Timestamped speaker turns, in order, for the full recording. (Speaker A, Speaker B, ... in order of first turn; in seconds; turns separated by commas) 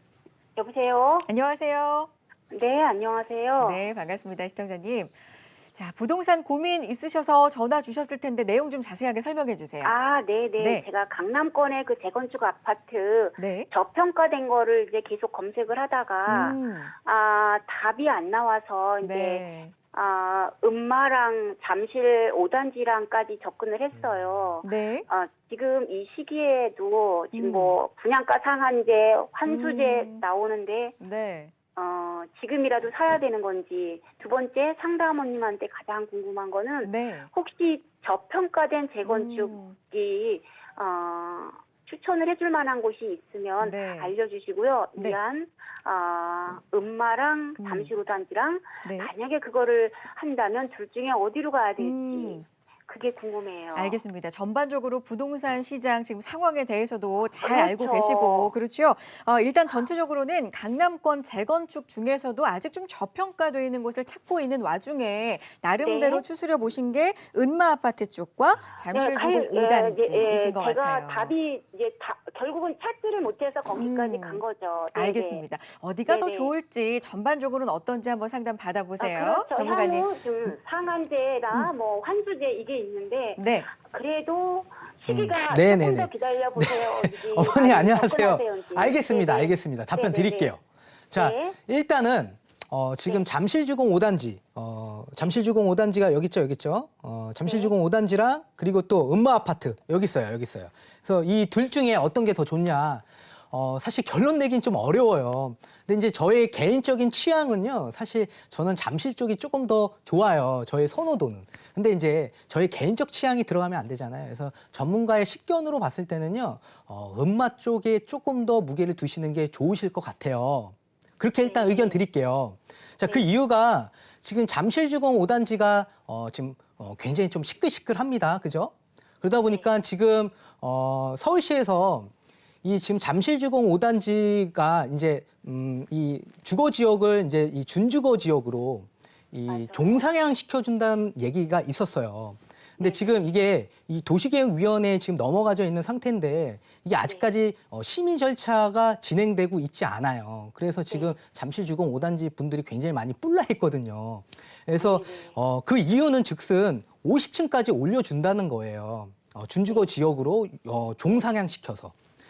Speaker A: 0.6-1.3, Speaker B: 1.2-2.1, Speaker A: 2.5-3.8, Speaker B: 3.6-5.1, Speaker B: 5.7-9.9, Speaker A: 9.8-30.9, Speaker B: 13.4-13.7, Speaker B: 16.3-16.9, Speaker B: 19.0-19.7, Speaker C: 23.9-24.5, Speaker B: 24.6-25.1, Speaker B: 27.3-27.8, Speaker B: 29.4-30.2, Speaker B: 31.0-31.5, Speaker A: 31.8-54.0, Speaker B: 36.8-37.3, Speaker B: 39.0-39.8, Speaker B: 43.6-44.1, Speaker B: 47.6-47.9, Speaker B: 48.8-49.1, Speaker B: 51.8-52.5, Speaker B: 53.8-71.3, Speaker A: 57.4-58.5, Speaker A: 65.8-66.2, Speaker A: 68.9-75.4, Speaker B: 73.7-74.4, Speaker B: 74.9-80.1, Speaker A: 76.1-76.5, Speaker A: 79.0-90.5, Speaker B: 83.4-83.7, Speaker C: 85.1-90.6, Speaker C: 91.1-132.1, Speaker A: 91.2-91.6, Speaker A: 97.4-97.7, Speaker A: 121.4-122.0, Speaker C: 132.6-161.9, Speaker A: 139.5-140.1, Speaker A: 142.8-143.2, Speaker A: 147.0-147.3, Speaker A: 154.7-155.4